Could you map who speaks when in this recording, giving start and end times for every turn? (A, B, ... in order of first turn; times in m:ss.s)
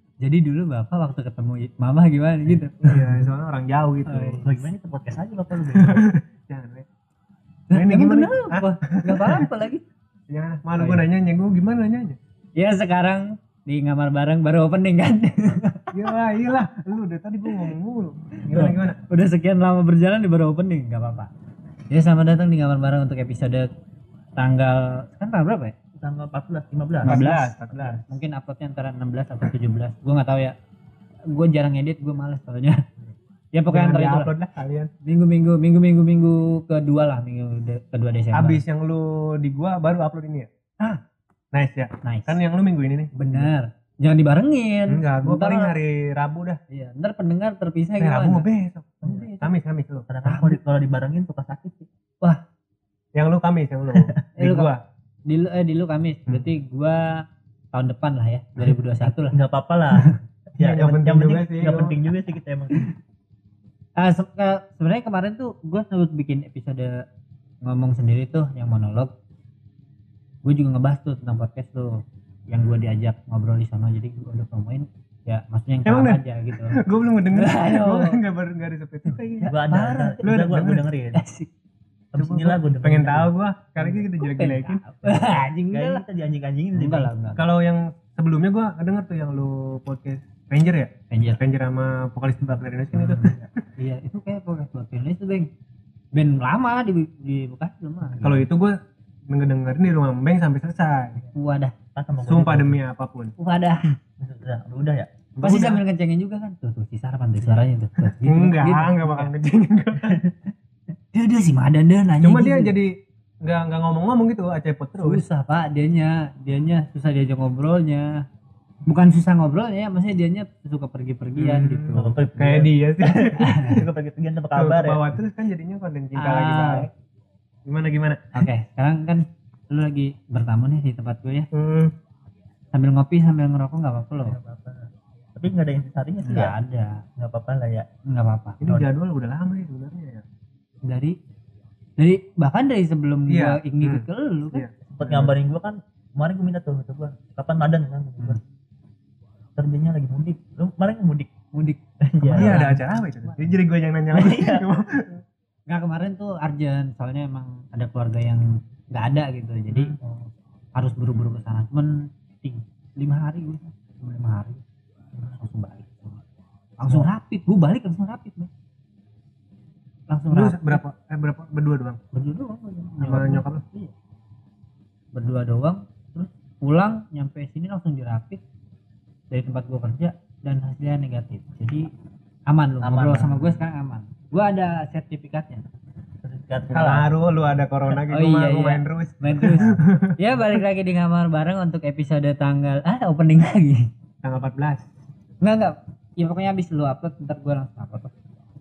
0:00.2-0:03.2 A
0:02.5-0:04.4 B
0:04.1-0:04.7 A
0:04.4-0:06.0 C
0:05.7-0:06.9 B
0:07.7-0:09.8 A
0:07.7-0:09.4 B
0:10.3-0:12.2 B
0:10.8-0:11.0 A
0:12.6-0:16.0 A
0:15.9-0:19.0 B
0:18.5-0:18.8 C
0:18.5-0:21.3 A
0:21.9-0:23.7 A
0:24.4-0:25.8 A
0:26.0-0:27.2 C
0:27.0-0:28.0 B
0:27.0-0:27.5 A
0:27.7-0:28.0 C
0:28.1-0:30.6 A
0:31.3-0:32.8 A
0:33.5-0:34.3 A
0:33.7-0:34.9 B
0:35.0-0:38.6 A
0:38.3-0:40.5 B
0:41.5-0:43.5 B
0:42.0-0:42.4 A
0:43.2-0:45.7 A
0:44.9-0:46.6 B
0:46.7-0:48.4 A
0:48.0-0:50.1 B
0:49.0-0:49.5 A
0:49.0-0:49.3 C
0:50.1-0:51.9 C
0:50.2-0:50.6 A
0:53.2-0:54.8 B
0:53.9-0:54.2 C
0:54.4-0:54.7 A
0:55.3-0:59.4 A
0:59.0-1:02.9 C
1:00.6-1:02.0 B
1:04.0-1:07.0 A
1:07.6-1:09.1 A
1:10.4-1:16.8 A
1:15.9-1:19.5 B
1:17.3-1:18.1 A
1:19.4-1:20.2 A
1:19.5-1:21.2 C
1:20.2-1:20.8 B
1:21.2-1:21.5 A
1:22.1-1:23.3 C
1:22.2-1:24.9 B
1:23.8-1:26.0 A
1:25.0-1:27.1 C
1:26.8-1:27.4 A
1:27.4-1:33.4 B
1:31.1-1:31.4 A
1:33.0-1:35.5 A
1:36.1-1:38.5 A
1:38.2-1:38.8 B
1:39.3-1:41.2 B
1:41.3-1:41.7 A
1:42.0-1:42.8 C
1:42.2-1:43.3 B
1:43.4-1:43.8 A
1:44.2-1:45.1 C
1:45.4-1:45.8 B
1:45.4-1:49.3 A
1:48.0-1:50.2 B
1:50.0-1:50.4 C
1:51.1-1:52.7 A
1:52.2-1:52.9 B
1:53.4-1:55.2 B
1:55.0-1:58.2 A
1:58.9-2:02.3 A
2:01.4-2:03.8 B
2:02.0-2:05.0 C
2:03.4-2:03.8 A
2:04.6-2:06.9 B
2:06.2-2:06.9 A
2:07.7-2:08.4 B
2:08.3-2:11.5 A
2:11.5-2:11.9 B
2:12.7-2:14.4 A
2:14.2-2:16.6 C
2:16.2-2:17.0 A
2:17.2-2:17.9 C
2:18.1-2:18.9 A
2:18.6-2:20.2 B
2:20.9-2:21.2 A
2:22.0-2:24.6 A
2:23.3-2:25.4 B
2:24.9-2:28.4 C
2:29.6-2:31.3 C
2:31.5-2:33.6 A
2:32.0-2:32.6 C
2:32.4-2:35.2 B
2:34.1-2:34.7 C
2:35.7-2:40.0 A
2:40.8-2:44.6 A
2:45.3-2:46.2 A
2:46.8-2:48.5 A
2:50.1-2:50.8 A
2:50.3-2:52.0 B
2:52.1-2:53.9 A
2:53.0-2:53.6 B
2:55.1-2:58.4 A
2:59.3-3:01.9 A
3:02.5-3:05.6 A
3:02.8-3:03.6 C
3:06.2-3:07.2 C
3:06.7-3:10.2 B
3:08.1-3:13.9 A
3:14.2-3:14.8 B
3:15.4-3:18.1 A